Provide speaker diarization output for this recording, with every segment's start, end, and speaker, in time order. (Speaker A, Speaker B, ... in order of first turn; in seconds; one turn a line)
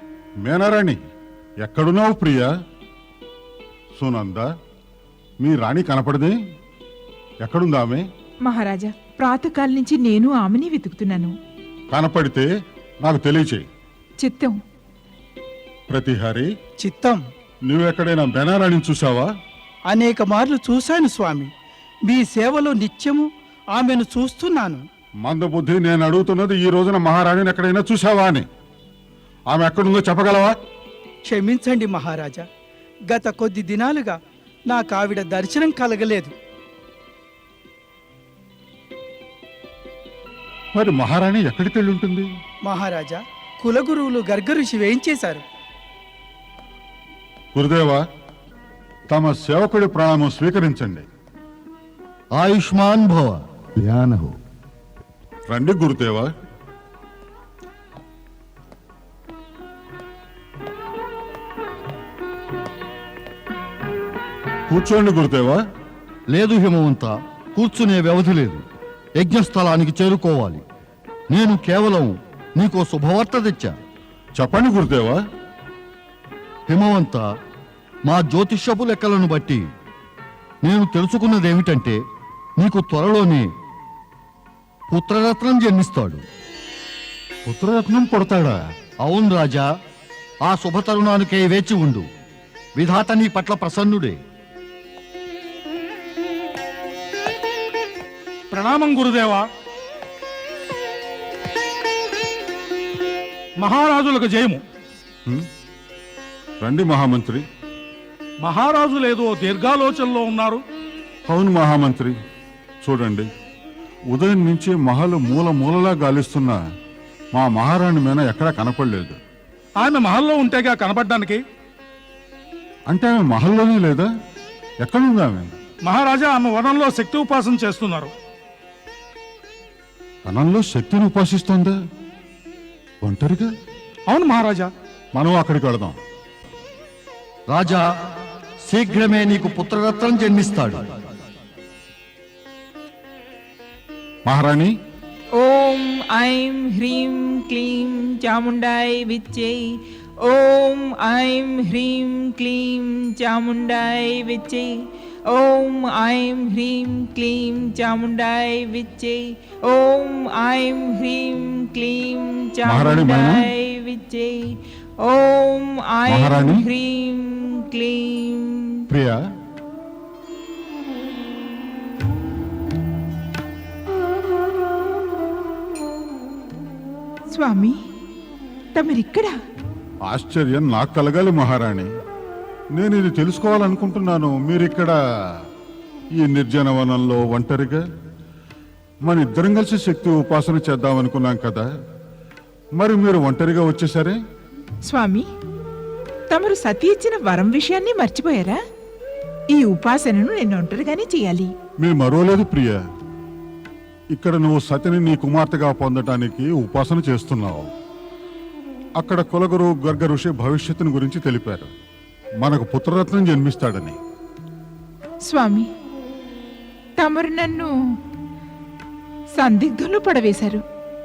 Speaker A: 0.4-1.0
Speaker A: 1.6-2.5
Speaker A: 4.0-4.5
Speaker A: 5.4-6.3
Speaker A: 7.4-8.0
Speaker B: 8.5-11.3
Speaker A: 11.9-12.5
Speaker A: 13.0-13.7
Speaker B: 14.2-14.6
Speaker A: 15.9-16.5
Speaker C: 16.8-17.2
Speaker A: 17.7-19.3
Speaker C: 19.9-21.5
Speaker C: 22.1-24.8
Speaker A: 25.3-28.4
Speaker A: 29.5-30.5
Speaker C: 31.2-32.5
Speaker C: 33.1-34.2
Speaker C: 34.7-36.3
Speaker A: 40.7-42.3
Speaker C: 42.6-45.4
Speaker A: 47.5-48.0
Speaker A: 49.1-51.0
Speaker D: 52.4-54.3
Speaker A: 55.5-56.3
Speaker A: 64.7-65.6
Speaker D: 66.3-68.6
Speaker D: 69.2-70.6
Speaker D: 71.3-73.7
Speaker A: 74.4-75.2
Speaker D: 76.7-77.2
Speaker D: 78.1-79.6
Speaker D: 80.6-82.0
Speaker D: 82.6-83.5
Speaker D: 84.9-86.2
Speaker A: 87.4-88.6
Speaker D: 89.0-89.7
Speaker D: 90.4-92.0
Speaker D: 92.8-94.2
Speaker E: 98.5-99.5
Speaker E: 103.6-104.6
Speaker A: 106.6-107.4
Speaker E: 108.4-110.6
Speaker A: 111.3-112.1
Speaker A: 112.8-113.3
Speaker A: 114.1-116.6
Speaker A: 117.3-119.2
Speaker E: 119.8-121.4
Speaker A: 122.9-124.1
Speaker A: 124.8-125.5
Speaker E: 125.8-128.1
Speaker A: 130.2-131.8
Speaker A: 133.0-133.5
Speaker E: 134.1-134.7
Speaker A: 135.1-135.9
Speaker D: 137.5-137.8
Speaker D: 138.7-140.8
Speaker A: 144.2-144.7
Speaker B: 145.4-168.8
Speaker A: 162.7-163.4
Speaker A: 166.1-166.6
Speaker A: 168.9-169.2
Speaker B: 177.3-177.8
Speaker B: 178.8-179.3
Speaker A: 180.1-181.9
Speaker A: 182.8-184.9
Speaker A: 186.2-187.8
Speaker A: 189.1-191.7
Speaker A: 192.8-194.2
Speaker B: 194.9-195.3
Speaker B: 196.3-198.6
Speaker B: 199.5-201.5
Speaker A: 201.8-202.8
Speaker A: 204.1-207.7
Speaker A: 209.0-211.7
Speaker A: 212.4-214.0
Speaker B: 215.3-215.7
Speaker B: 217.0-217.7
Speaker B: 219.4-220.6